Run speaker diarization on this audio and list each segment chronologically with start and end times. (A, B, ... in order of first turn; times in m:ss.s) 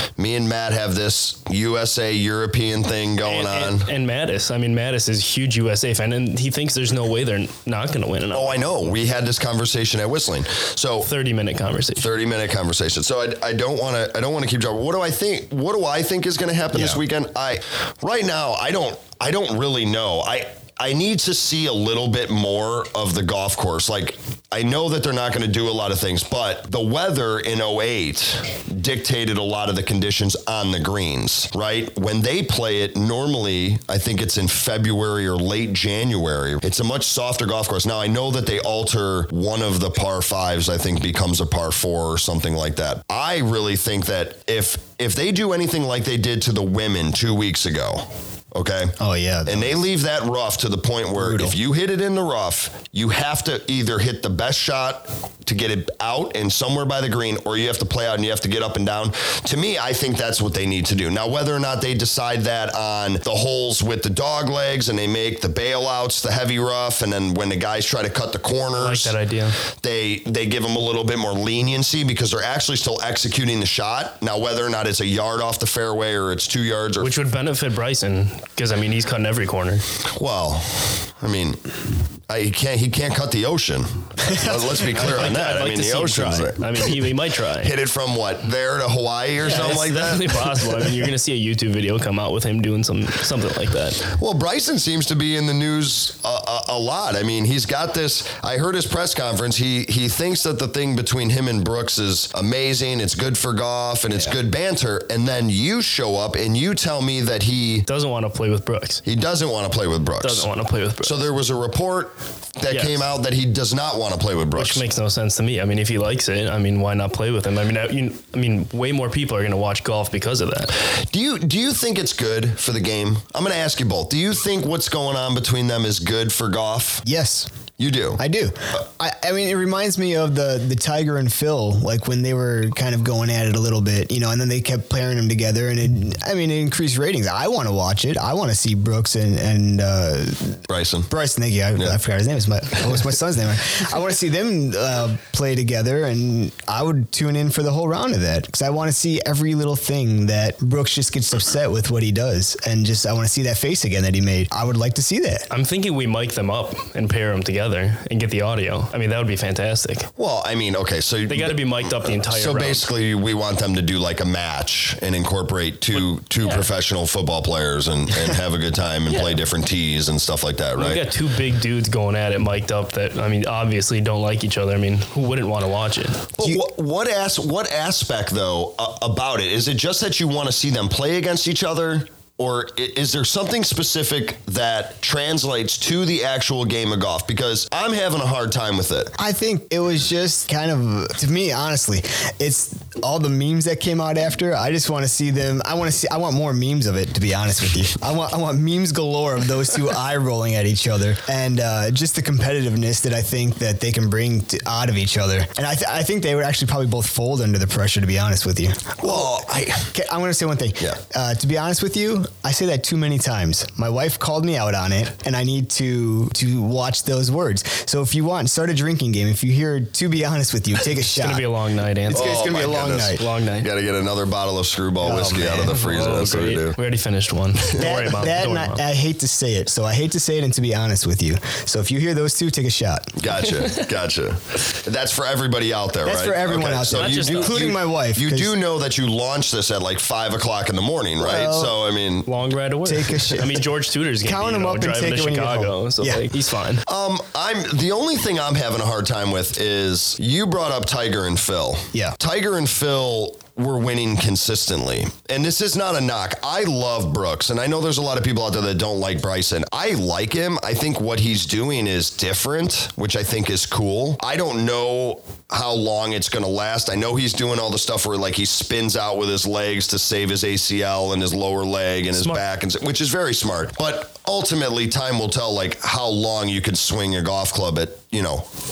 0:00.2-0:03.9 A
0:03.2-0:08.6 B
0:08.3-0:11.1 A
0:11.0-0:12.1 B
0:12.0-1:09.1 A
0:49.0-0:49.8 C
0:51.2-0:51.5 C
1:08.8-1:09.6 B
1:09.8-1:17.1 A
1:17.0-1:19.8 B
1:20.1-1:21.7 A
1:22.3-1:27.0 A
1:24.2-1:24.5 C
1:24.9-1:27.7 B
1:27.6-1:30.9 A
1:29.4-1:34.1 B
1:34.0-1:47.8 A
1:47.8-1:49.0 B
1:49.0-1:50.5 A
1:50.2-1:51.2 B
1:51.0-1:54.8 A
1:52.7-1:53.0 B
1:54.6-2:00.7 B
2:00.9-2:07.0 A
2:07.0-2:07.5 C
2:07.8-2:08.2 A
2:08.2-2:35.5 C
2:20.7-2:21.1 A
2:35.5-2:40.1 B
2:40.2-2:51.0 A
2:41.3-2:42.9 B
2:49.1-2:49.4 B
2:50.8-2:56.3 B
2:56.4-3:09.1 A
3:09.2-3:41.5 C
3:29.0-3:29.9 A
3:41.0-3:42.4 B
3:42.0-3:43.2 C
3:42.1-3:46.8 A
3:43.1-3:43.7 B
3:45.0-3:45.8 C
3:45.7-3:48.8 B
3:47.8-3:53.1 C
3:53.2-4:02.3 A
3:53.6-3:53.9 B
3:56.0-3:58.6 C
3:56.9-3:57.6 B
4:01.2-4:01.8 C
4:02.2-4:06.8 B
4:02.8-4:03.6 C
4:04.2-4:06.2 C
4:06.8-4:38.5 A
4:32.1-4:32.4 B